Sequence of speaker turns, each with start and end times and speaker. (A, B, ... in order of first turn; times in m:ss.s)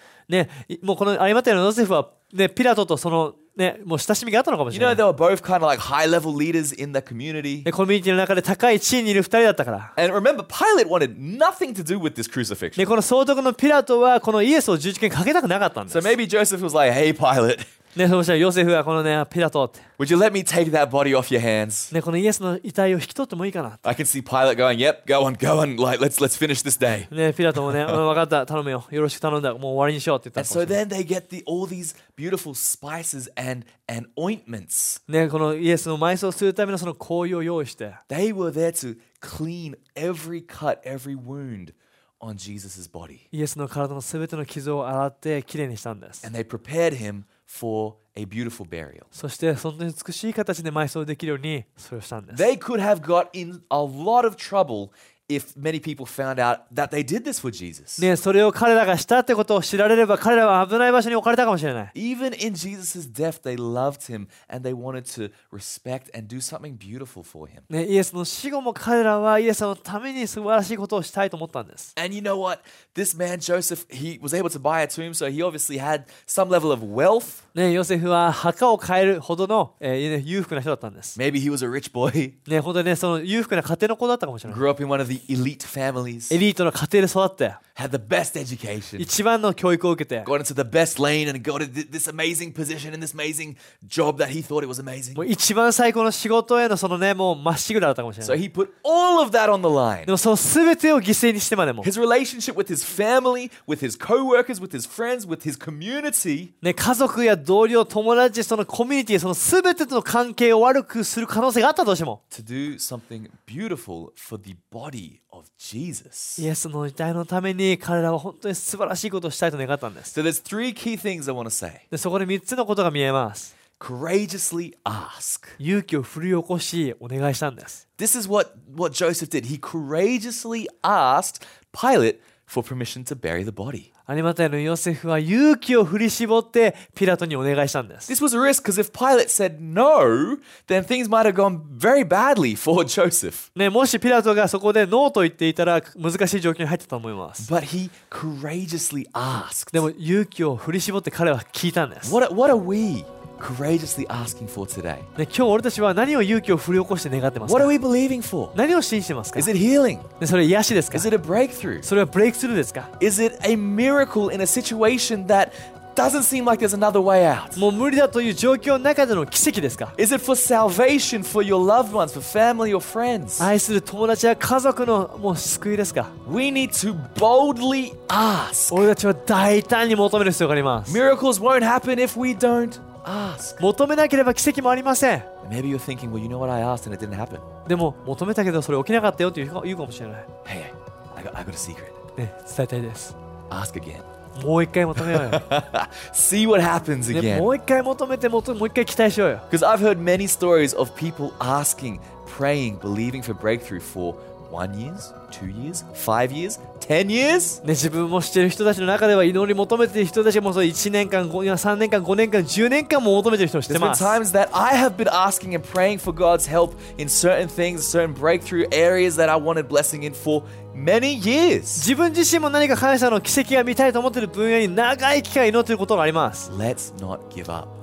0:00.3-0:05.0 A
0:04.7-0:07.7 B
0:07.6-0:09.9 A
0:10.0-0:12.9 B
0:12.8-0:16.1 A
0:15.9-0:17.7 B
0:18.0-0:19.8 A
0:20.0-0:21.9 B
0:21.9-0:23.8 A
0:23.8-0:27.1 B
0:27.1-0:30.8 A
0:27.7-0:28.0 B
0:30.4-0:35.0 B
0:35.1-0:38.0 A
0:38.1-0:43.3 B
0:43.3-0:46.3 A
0:46.2-0:49.1 B
0:49.1-0:52.5 A
0:52.3-0:58.1 B
0:58.0-1:01.9 A
1:02.0-1:07.7 B
1:07.7-1:11.9 A
1:12.0-1:17.4 B
1:17.6-1:21.2 A
1:21.2-1:22.4 B
1:22.5-1:24.6 A
1:24.5-1:26.4 B
1:26.3-1:27.6 A
1:27.8-1:29.1 B
1:29.0-1:30.3 A
1:30.2-1:35.3 B
1:35.2-1:38.4 A
1:38.2-1:40.1 B
1:40.1-1:41.9 A
1:41.8-1:46.5 B
1:46.6-1:52.2 A
1:52.3-1:56.5 B
1:56.4-2:00.1 A
2:00.1-2:01.8 B
2:01.9-2:03.5 A
2:03.8-2:05.6 B
2:05.6-2:07.8 A
2:08.0-2:13.9 B
2:14.1-2:18.1 A
2:18.1-2:23.5 B
2:23.6-2:27.5 A
2:27.4-2:29.9 B
2:29.7-2:32.2 A
2:32.0-2:35.1 B
2:35.2-2:37.7 A
2:37.4-2:38.6 B
2:38.6-2:39.5 A
2:39.4-2:40.1 B
2:40.2-2:41.1 A
2:40.9-2:41.9 B
2:41.8-2:42.9 A
2:43.0-2:47.6 B
2:47.6-2:50.0 A
2:50.0-2:53.5 B
2:53.4-2:56.1 A
2:56.2-2:58.9 B
2:58.7-3:01.0 A
3:00.9-3:03.6 B
3:03.6-3:05.3 A
3:05.4-3:07.5 B
3:07.7-3:10.3 A
3:10.4-3:12.0 B
3:12.2-3:13.2 A
3:13.5-3:14.1 B
3:14.4-3:15.5 A
3:15.0-3:17.5 B
3:17.1-3:19.5 A
3:19.5-3:27.6 B
3:27.6-3:34.2 A
3:33.7-3:41.9 B
3:41.8-3:46.5 A
3:46.5-3:47.7 B